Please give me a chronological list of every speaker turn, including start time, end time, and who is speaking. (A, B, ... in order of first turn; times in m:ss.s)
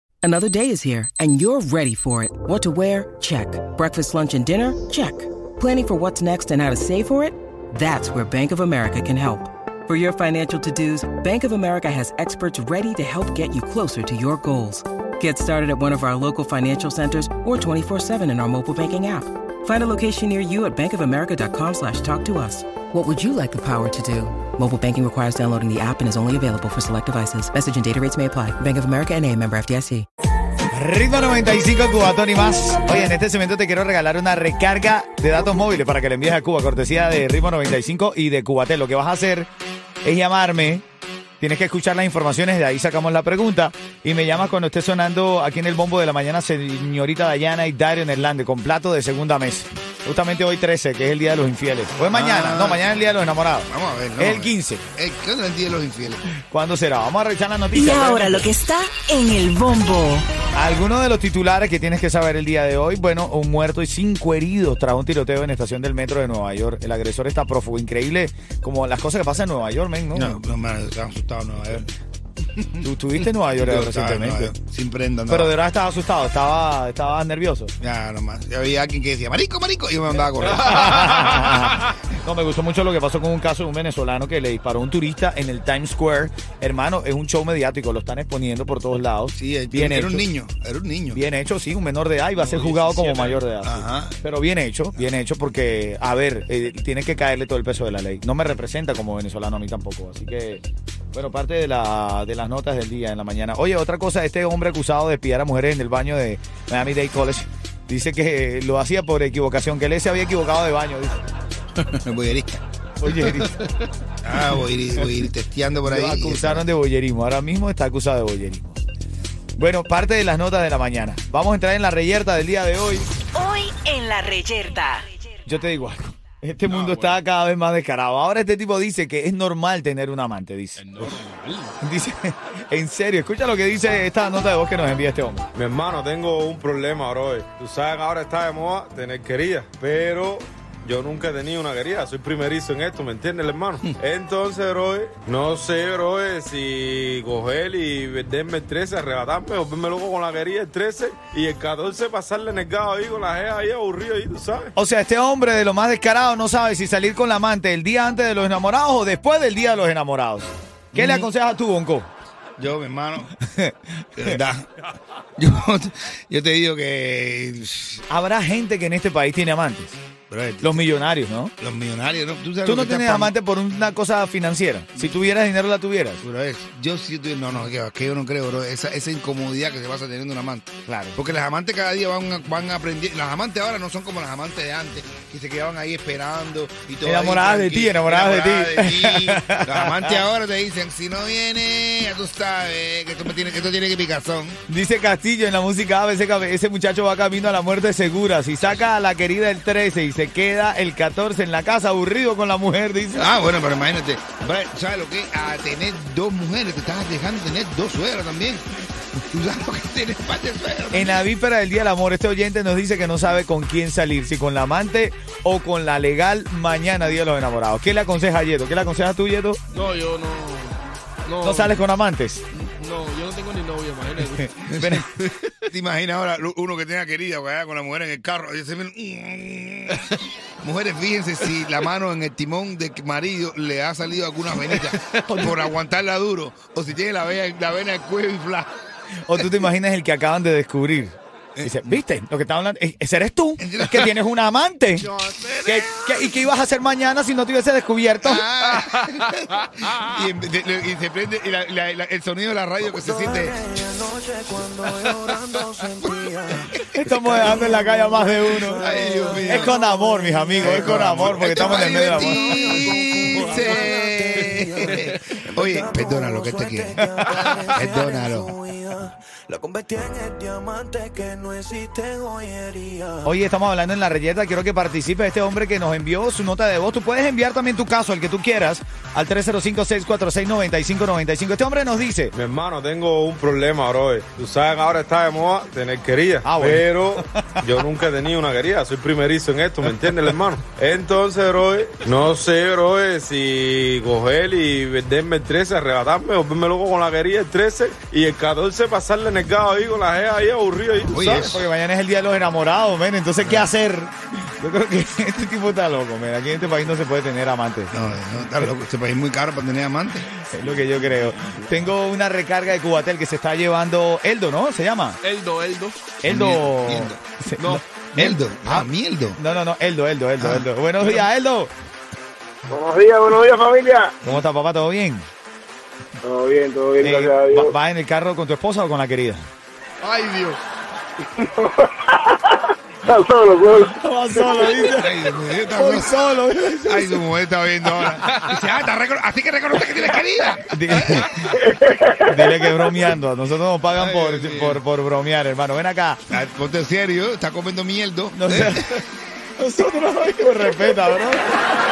0:00.2-0:30.1 A
0:30.7-0:39.5 B
0:40.0-0:40.8 B
0:41.4-0:54.9 B
0:52.1-0:52.8 C
0:53.7-0:56.3 C
0:56.4-0:58.5 B
0:57.8-1:00.2 D
1:00.6-1:10.4 B
1:10.1-1:11.9 C
1:12.6-1:12.8 C
1:12.8-1:14.5 B
1:13.5-1:15.5 C
1:15.3-1:17.7 B
1:17.8-1:20.9 C
1:20.4-1:30.3 B
1:29.3-1:31.2 C
1:31.1-1:51.2 B
1:32.4-1:33.4 E
1:33.6-1:34.2 C
1:51.8-1:53.4 C
1:53.0-1:53.6 B
1:54.2-1:56.6 C
1:54.9-1:55.3 B
1:55.8-1:58.8 B
1:59.6-2:03.1 B
2:03.3-2:05.1 D
2:05.5-2:11.2 B
2:06.7-2:07.2 F
2:10.8-2:11.7 F
2:11.8-2:15.5 B
2:15.5-2:34.7 E
2:34.8-2:42.1 B
2:40.9-2:41.3 C
2:42.6-2:43.3 C
2:43.4-2:44.4 B
2:44.2-2:44.7 C
2:45.4-2:48.0 C
2:48.1-2:50.0 B
2:50.3-2:50.8 C
2:50.6-2:51.5 B
2:51.6-2:53.3 C
2:52.6-2:56.2 B
2:56.2-3:14.6 C
3:00.8-3:01.2 B
3:07.0-3:10.2 B
3:14.7-3:23.3 B
3:23.2-3:28.7 C
3:29.3-3:31.2 C
3:30.9-3:39.6 B
3:39.7-3:41.8 F
3:41.4-3:42.5 B
3:42.8-3:44.5 F
3:44.6-3:45.1 B
3:44.7-3:45.0 C
3:45.2-3:45.5 F
3:45.7-3:58.7 C
3:54.8-3:55.2 F
3:59.2-4:05.1 B
4:01.6-4:02.0 C
4:03.6-4:04.1 C
4:05.1-4:05.6 F
4:05.6-4:08.4 B
4:08.2-4:14.1 C
4:15.0-4:15.3 C
4:15.1-4:16.2 G
4:16.0-4:17.6 C
4:16.9-4:22.8 B
4:18.7-4:19.7 C
4:20.6-4:27.1 C
4:22.9-4:25.0 G
4:25.6-4:33.2 G
4:27.7-4:28.6 C
4:33.2-4:42.3 B
4:42.3-5:01.4 E
4:46.4-4:47.6 B
5:01.1-5:01.6 C
5:01.1-5:07.9 B
5:03.4-5:03.7 C
5:07.9-5:10.3 C
5:10.4-5:15.2 B
5:15.2-5:16.1 F
5:16.2-5:21.7 B
5:16.2-5:17.2 C
5:17.6-5:17.8 F
5:18.2-5:19.4 C
5:20.4-5:20.7 C
5:22.7-5:24.1 H
5:24.2-5:25.3 B
5:26.2-5:27.7 H
5:27.0-5:29.5 B
5:30.0-5:30.6 F
5:31.4-5:34.8 H
5:33.9-5:37.2 B
5:34.9-5:36.2 C
5:36.8-5:41.3 C
5:40.7-5:41.5 B
5:41.4-5:42.2 H
5:42.3-5:46.2 B
5:44.0-5:44.8 C
5:46.3-5:48.8 C
5:48.3-5:49.0 B
5:49.6-5:51.5 B